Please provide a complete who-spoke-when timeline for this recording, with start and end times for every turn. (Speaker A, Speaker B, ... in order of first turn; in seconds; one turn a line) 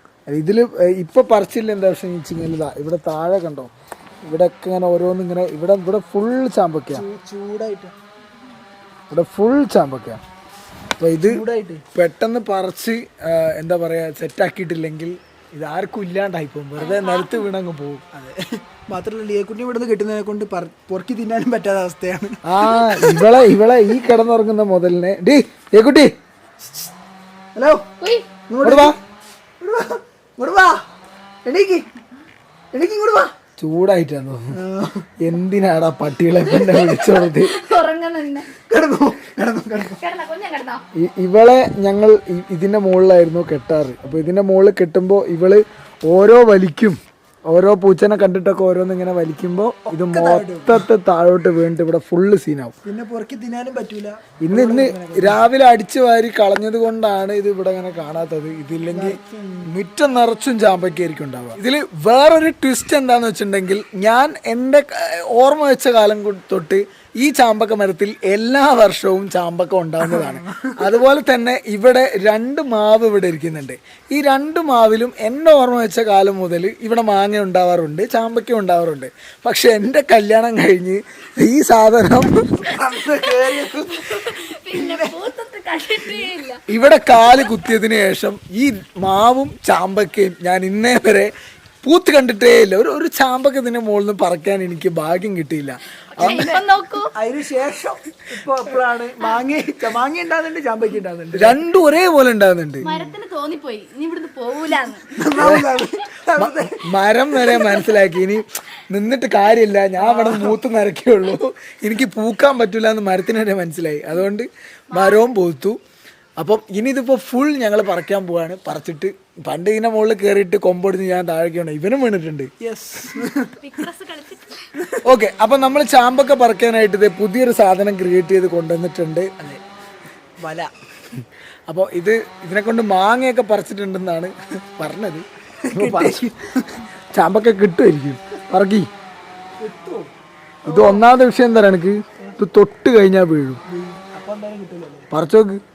Speaker A: 0.3-3.7
Speaker A: 4.2-7.0
Speaker B: 6.9-7.9
Speaker A: 9.1-10.2
Speaker A: 11.0-18.0
Speaker B: 11.3-11.8
Speaker C: 16.8-17.5
Speaker B: 18.1-23.3
Speaker A: 22.4-26.1
Speaker B: 27.5-27.9
Speaker C: 28.0-28.3
Speaker B: 28.5-28.9
Speaker A: 28.6-28.9
Speaker B: 29.6-30.8
Speaker B: 31.4-31.9
Speaker B: 32.7-33.3
Speaker A: 33.6-34.5
Speaker B: 34.5-35.1
Speaker A: 35.2-37.6
Speaker C: 36.5-38.5
Speaker B: 38.7-40.0
Speaker C: 40.0-40.8
Speaker A: 40.9-47.0
Speaker A: 47.5-52.7
Speaker B: 49.9-50.9
Speaker B: 52.8-55.5
Speaker A: 54.4-82.7
Speaker B: 58.9-59.7
Speaker B: 70.0-70.8
Speaker B: 82.6-85.1
Speaker C: 83.2-86.6
Speaker A: 86.7-91.3
Speaker A: 91.8-96.5
Speaker C: 96.1-97.1
Speaker B: 96.2-96.6
Speaker B: 97.1-101.6
Speaker A: 101.3-102.9
Speaker B: 102.8-103.2
Speaker C: 102.8-105.2
Speaker B: 105.0-107.8
Speaker A: 105.4-105.7
Speaker A: 106.4-115.8
Speaker B: 110.0-110.6
Speaker C: 114.9-115.2
Speaker A: 116.4-122.5
Speaker B: 122.6-123.6
Speaker C: 123.6-124.7
Speaker A: 125.0-129.6
Speaker B: 130.4-130.7
Speaker A: 131.7-136.3
Speaker B: 135.6-136.8
Speaker A: 137.1-138.9
Speaker B: 139.6-140.1
Speaker B: 140.6-141.1
Speaker A: 140.7-143.6
Speaker B: 143.7-145.1
Speaker A: 145.1-145.6